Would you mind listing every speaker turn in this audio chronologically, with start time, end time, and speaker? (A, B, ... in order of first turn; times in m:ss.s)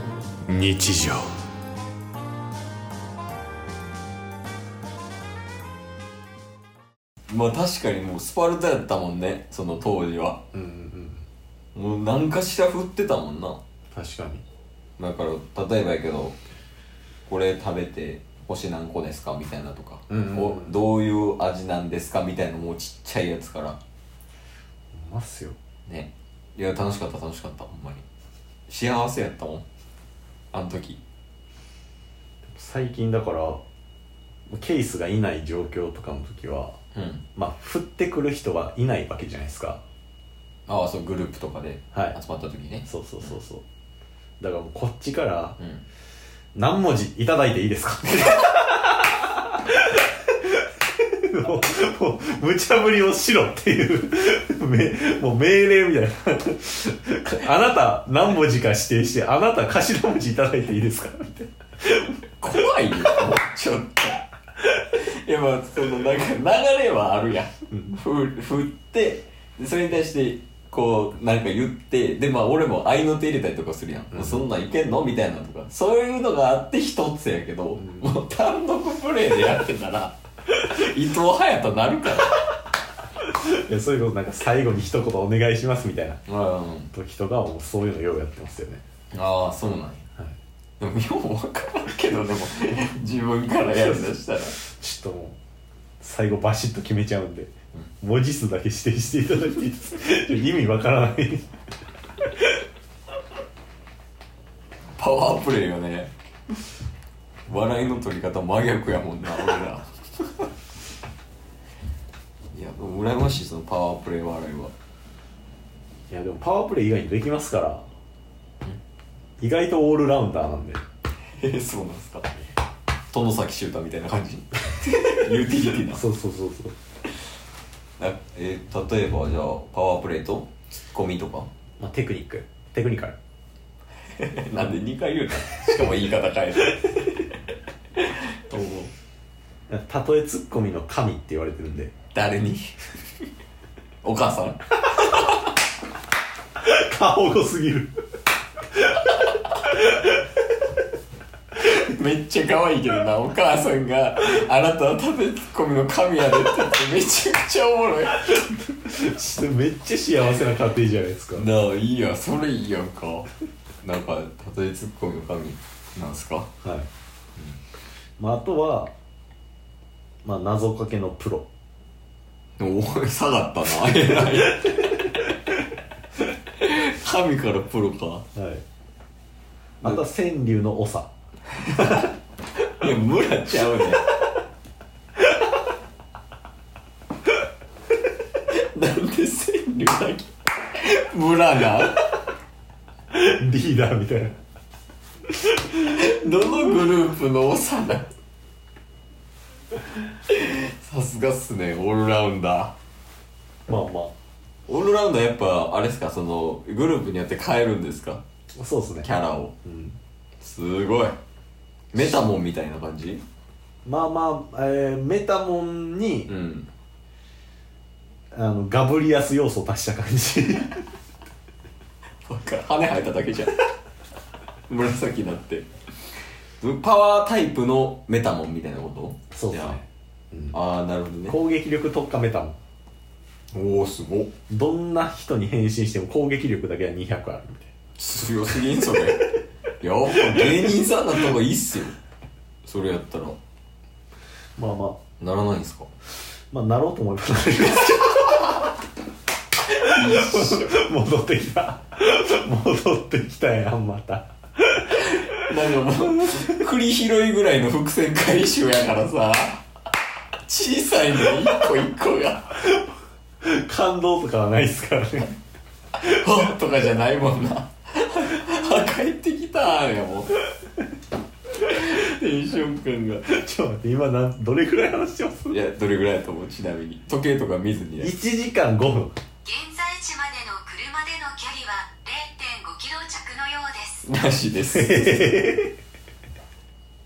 0:00.5-0:01.3 A
0:07.3-0:10.4 B
0:10.5-0:11.3 A
0:11.8-0:13.6 B
0:13.9-0:14.4 A
0:15.0-0:16.4 B
0:17.3-0:23.8 B
0:20.1-0:20.8 A
0:24.9-0:25.6 A
0:25.9-0:28.0 B
0:28.7-0:29.6 B
0:30.5-0:31.0 B
0:32.4-0:33.6 A
0:34.5-0:36.8 A
0:36.9-0:37.2 B
0:37.4-0:39.8 A
0:40.7-0:43.4 B
0:42.9-0:43.6 A
0:44.4-0:45.6 A
0:45.6-0:45.8 B
0:46.6-1:02.2 A
1:02.4-1:22.4 B
1:14.1-1:14.5 A
1:17.8-1:18.1 A
1:23.2-1:26.2 A
1:26.3-1:26.9 B
1:26.9-1:28.8 A
1:29.1-1:30.1 B
1:30.8-1:34.6 B
1:33.8-1:35.4 A
1:36.0-1:41.7 A
1:45.0-1:46.1 B
1:47.5-1:50.5 B
1:52.5-1:54.7 B
1:56.1-1:57.9 A
1:59.4-2:00.8 A
2:01.4-2:02.3 B
2:03.1-2:06.0 B
2:05.9-2:06.8 A
2:08.0-2:11.5 B
2:11.8-2:13.2 A
2:14.1-2:17.3 B
2:18.0-2:18.9 B
2:19.7-2:21.9 A
2:22.1-2:22.8 B
2:24.0-2:25.2 B
2:26.6-2:27.9 A
2:28.7-2:30.1 A
2:31.5-2:38.4 B
2:38.5-2:41.5 A
2:41.3-2:43.3 B
2:43.8-2:46.5 B
2:46.6-2:46.9 A
2:48.2-2:48.9 A
2:50.2-2:51.5 A
2:52.6-2:55.4 B
2:56.4-2:58.3 B
2:58.4-2:58.6 A
2:59.8-3:01.1 A
3:01.6-3:04.1 B
3:08.4-3:12.2 B
3:13.1-3:14.4 A
3:15.7-3:18.1 B
3:20.1-3:22.7 B
3:23.7-3:24.1 A
3:24.7-3:28.2 B
3:28.6-3:29.1 A
3:29.0-3:29.6 B
3:29.6-3:30.0 A
3:30.4-3:31.2 B
3:31.9-3:33.2 B
3:33.8-3:36.3 A
3:36.3-3:36.7 B
3:38.3-3:40.9 A
3:42.2-3:43.7 B
3:44.7-3:45.7 B
3:46.6-3:49.8 B
3:49.3-3:50.6 A
3:50.5-3:51.4 B
3:51.3-3:52.6 A
3:53.5-3:54.3 B
3:54.5-3:57.7 A
3:58.0-4:02.0 B
4:00.2-4:00.6 A
4:02.6-4:03.4 B
4:04.6-4:05.0 A
4:05.2-4:05.9 B
4:06.5-4:08.6 A
4:09.7-4:14.8 A
4:09.9-4:10.8 B
4:14.9-4:19.6 B
4:20.4-4:22.6 B
4:23.4-4:25.4 A
4:26.0-4:30.4 B
4:31.5-4:33.4 B
4:33.4-4:35.6 A
4:35.5-4:38.1 B
4:38.0-4:39.2 A
4:39.4-4:44.0 C
4:44.0-4:45.4 B
4:44.7-4:45.7 A